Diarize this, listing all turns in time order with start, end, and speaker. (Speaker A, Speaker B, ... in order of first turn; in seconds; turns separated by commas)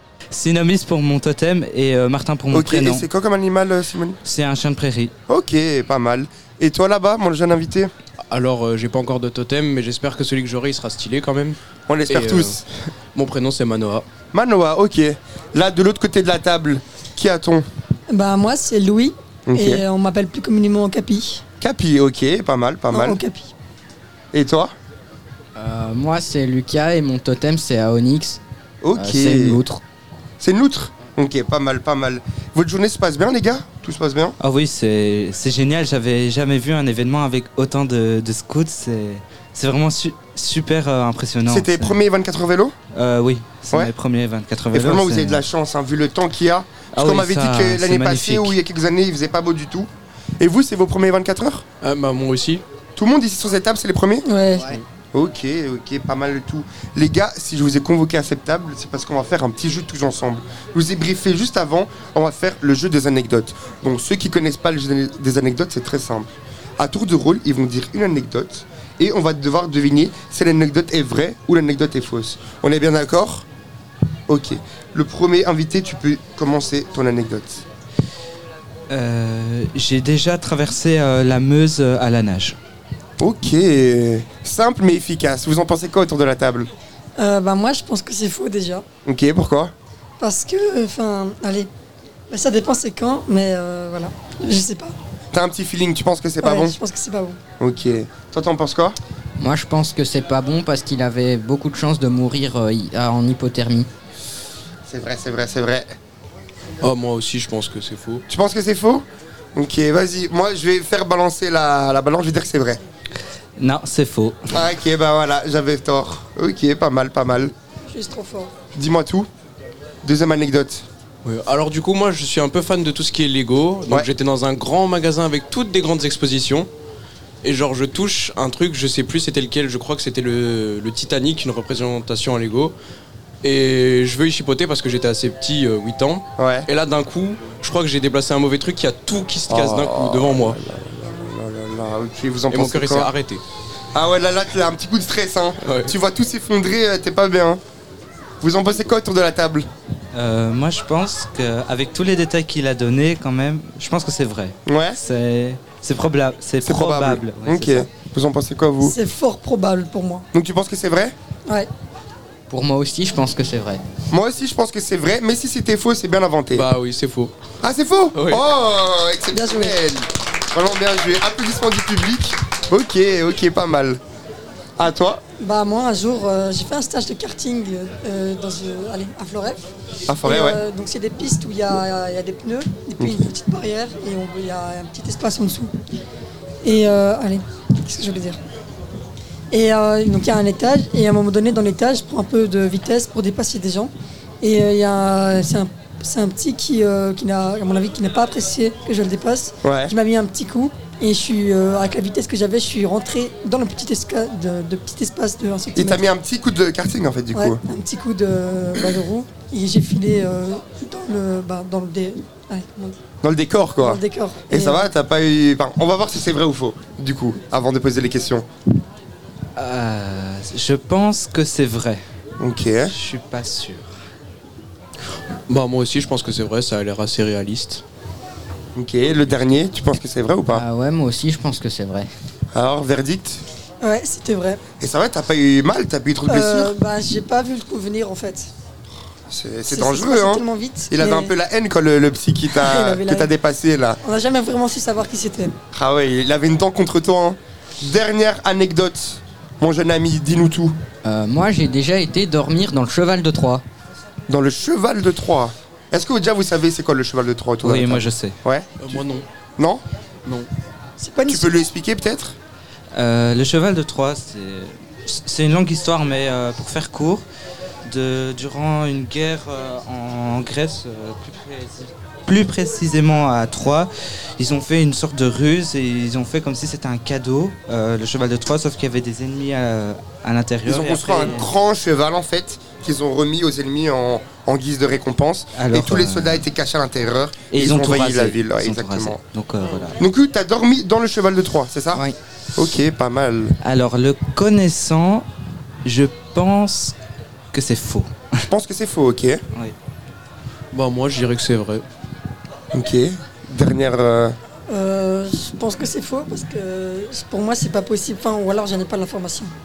Speaker A: 0.3-3.1, Speaker B: 2.5-4.2, Speaker A: 4.2-5.1, Speaker B: 5.3-7.9, Speaker C: 8.2-12.6, Speaker B: 11.9-12.7, Speaker C: 13.2-14.1, Speaker B: 14.3-17.7, Speaker D: 18.1-21.4, Speaker B: 19.5-19.8, Speaker B: 21.6-23.2, Speaker D: 22.9-23.5, Speaker B: 24.3-24.7, Speaker E: 25.6-28.4, Speaker B: 28.8-29.6, Speaker E: 29.0-29.8, Speaker B: 30.4-34.4, Speaker A: 34.4-42.0, Speaker B: 41.5-42.7, Speaker A: 42.9-45.5, Speaker B: 44.7-49.9, Speaker A: 47.0-48.6, Speaker B: 50.4-51.6, Speaker C: 51.8-52.6, Speaker B: 53.0-54.3, Speaker D: 54.2-54.8, Speaker B: 55.1-73.5, Speaker B: 74.3-77.6, Speaker A: 78.9-82.6, Speaker B: 83.2-86.7, Speaker D: 87.2-88.8, Speaker B: 89.1-89.7, Speaker D: 90.2-91.7, Speaker D: 92.3-95.0, Speaker B: 95.3-96.8, Speaker D: 96.4-97.4, Speaker B: 97.6-99.0, Speaker E: 99.4-103.9, Speaker B: 104.9-105.9, Speaker C: 106.8-108.2, Speaker B: 108.3-109.0, Speaker B: 109.6-112.8, Speaker A: 113.6-114.4, Speaker B: 114.5-117.5, Speaker D: 117.9-118.5, Speaker B: 118.7-119.3, Speaker B: 120.0-120.8, Speaker C: 121.2-126.7, Speaker C: 127.4-132.8, Speaker C: 133.4-140.6, Speaker B: 136.4-136.7, Speaker B: 139.5-143.1, Speaker C: 142.5-143.4, Speaker B: 143.9-147.6, Speaker C: 145.6-145.9, Speaker B: 148.4-149.7, Speaker A: 150.1-157.8, Speaker B: 154.7-155.0, Speaker B: 156.7-159.0, Speaker D: 158.8-160.3, Speaker B: 160.3-161.2, Speaker E: 162.5-163.8, Speaker B: 164.1-166.7, Speaker C: 166.5-167.3, Speaker B: 167.6-174.0, Speaker C: 168.1-168.4, Speaker D: 169.3-169.8, Speaker B: 174.8-175.2, Speaker D: 175.4-179.7, Speaker B: 180.1-180.6, Speaker D: 180.2-185.7, Speaker D: 186.6-188.4, Speaker D: 189.5-206.1, Speaker B: 199.6-199.9, Speaker B: 205.8-207.6, Speaker D: 207.3-213.0, Speaker B: 213.2-218.5, Speaker D: 213.8-214.9, Speaker A: 219.6-222.0, Speaker B: 222.4-222.9, Speaker A: 222.8-223.9, Speaker C: 225.5-227.8, Speaker B: 228.8-230.6, Speaker E: 230.5-232.1, Speaker B: 232.5-233.4, Speaker D: 233.8-234.6, Speaker B: 234.8-236.7, Speaker D: 236.3-238.5, Speaker B: 239.3-244.0, Speaker D: 239.7-241.3, Speaker D: 242.5-243.3, Speaker D: 244.0-245.5, Speaker B: 245.7-250.8, Speaker E: 251.0-253.6, Speaker B: 254.3-259.0, Speaker A: 257.6-258.4, Speaker C: 258.8-259.3, Speaker D: 261.0-261.6, Speaker B: 261.3-262.4, Speaker A: 262.9-267.2, Speaker A: 267.9-281.5, Speaker B: 280.7-289.2, Speaker A: 285.5-286.4, Speaker A: 287.5-290.0, Speaker B: 290.0-292.0, Speaker B: 292.6-293.6, Speaker A: 293.6-295.3, Speaker A: 295.9-296.9, Speaker A: 297.5-298.1, Speaker B: 298.5-299.4, Speaker C: 300.7-301.9, Speaker B: 302.7-304.4, Speaker D: 304.7-309.5